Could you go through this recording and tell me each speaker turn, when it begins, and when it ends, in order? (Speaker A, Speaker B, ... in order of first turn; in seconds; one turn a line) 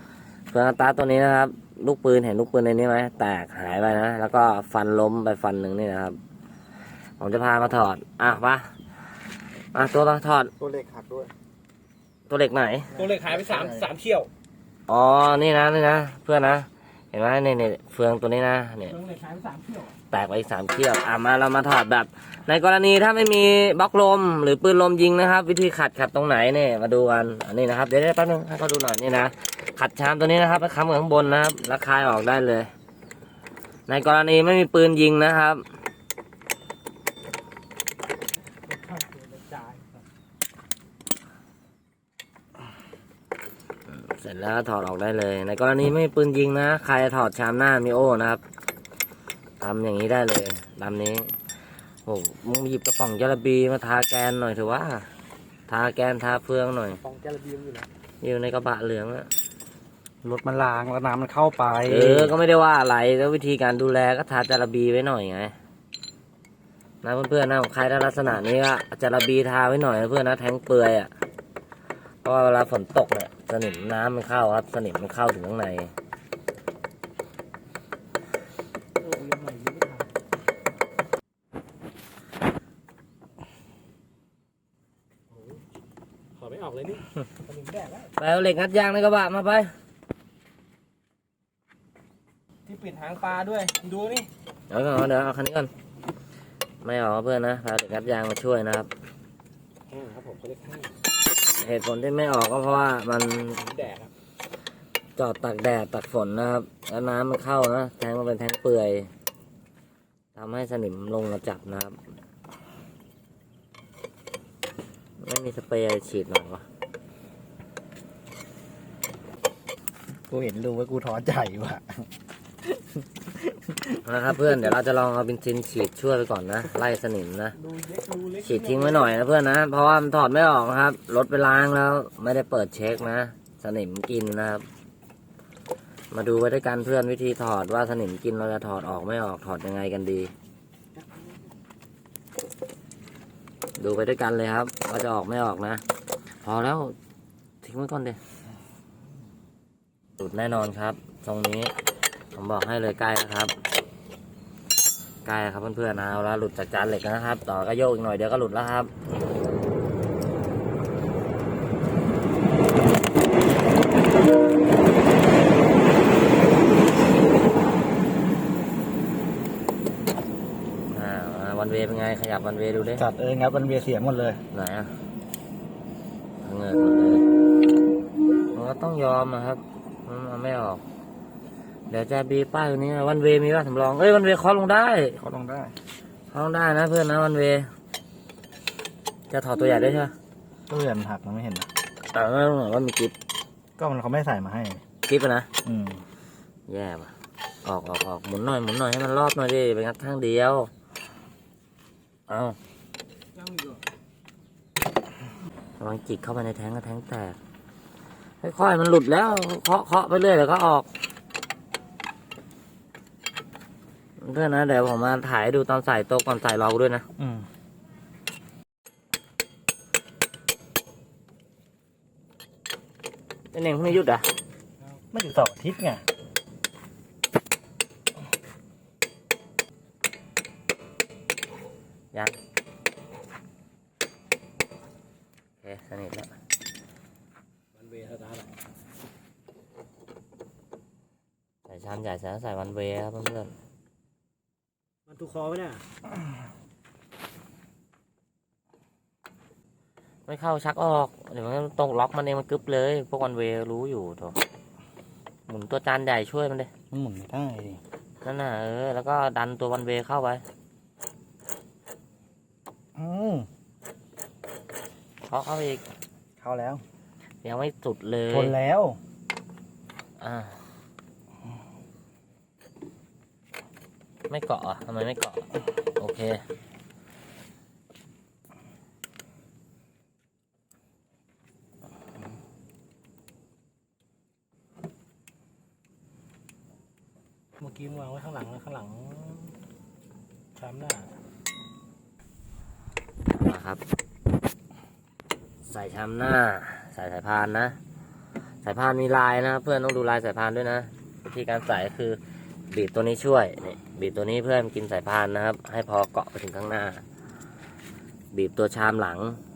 Speaker A: 0.5-6.2
Speaker A: 7.2-8.7
Speaker A: 9.7-10.5
Speaker B: 10.6-11.3
Speaker A: 12.3-12.9
Speaker C: 12.9-14.3
Speaker B: 13.2-13.6
Speaker A: 14.9-19.0
Speaker C: 18.9-19.9
Speaker A: 20.1-32.7
Speaker A: 33.9-35.6
Speaker C: 38.6-39.9
Speaker A: 43.9-48.4
Speaker A: 49.6-51.3
Speaker A: 52.0-55.1
Speaker A: 55.7-57.0
Speaker C: 57.0-57.9
Speaker A: 58.2-59.3
Speaker B: 60.2-62.3
Speaker A: 61.9-65.5
Speaker A: 67.0-71.1
Speaker A: 72.2-75.9
Speaker C: 79.0-80.1
Speaker C: 85.3-85.6
Speaker C: 86.3-88.1
Speaker A: 88.2-89.7
Speaker C: 92.7-94.3
Speaker A: 94.7-95.7
Speaker A: 96.8-98.9
Speaker C: 99.9-101.0
Speaker A: 101.6-103.6
Speaker C: 103.5-104.1
Speaker A: 105.2-109.1
Speaker A: 110.3-112.0
Speaker A: 115.2-116.6
Speaker B: 120.3-122.1
Speaker B: 123.5-123.8
Speaker A: 124.0-127.5
Speaker C: 127.5-129.1
Speaker A: 128.4-134.6
Speaker A: 136.1-140.3
Speaker A: 143.8-145.8
Speaker A: 146.4-146.9
Speaker A: 147.6-148.2
Speaker A: 150.2-151.7
Speaker A: 152.3-153.5
Speaker A: 155.2-158.9
Speaker A: 170.9-173.0
Speaker B: 173.0-174.4
Speaker A: 174.5-174.9
Speaker A: 176.4-177.2
Speaker A: 178.5-180.8
Speaker A: 181.9-185.2
Speaker B: 185.2-185.7
Speaker A: 186.3-187.7
Speaker A: 189.3-190.1
Speaker B: 190.7-191.7
Speaker A: 192.1-193.1
Speaker B: 193.8-194.8
Speaker A: 195.1-195.5
Speaker B: 195.6-196.0
Speaker A: 196.7-197.1
Speaker A: 197.6-200.7
Speaker A: 202.3-202.6
Speaker C: 203.4-203.8
Speaker A: 205.8-207.4
Speaker A: 208.4-210.9
Speaker A: 214.2-217.0
Speaker B: 217.2-217.5
Speaker A: 223.5-224.2
Speaker B: 225.1-226.0
Speaker A: 235.6-236.3
Speaker C: 237.7-238.5
Speaker A: 241.7-243.5
Speaker C: 245.1-245.8
Speaker A: 250.3-254.4
Speaker A: 255.5-256.7
Speaker B: 256.9-257.8
Speaker A: 258.2-260.4
Speaker B: 262.9-263.5
Speaker A: 265.2-265.8
Speaker B: 266.4-266.8
Speaker A: 267.4-268.5
Speaker B: 268.3-269.0
Speaker A: 270.2-270.6
Speaker A: 274.3-276.4
Speaker C: 287.6-289.6
Speaker C: 290.5-291.2
Speaker A: 293.3-293.8
Speaker A: 295.6-297.8
Speaker A: 298.6-307.0
Speaker A: 308.3-309.4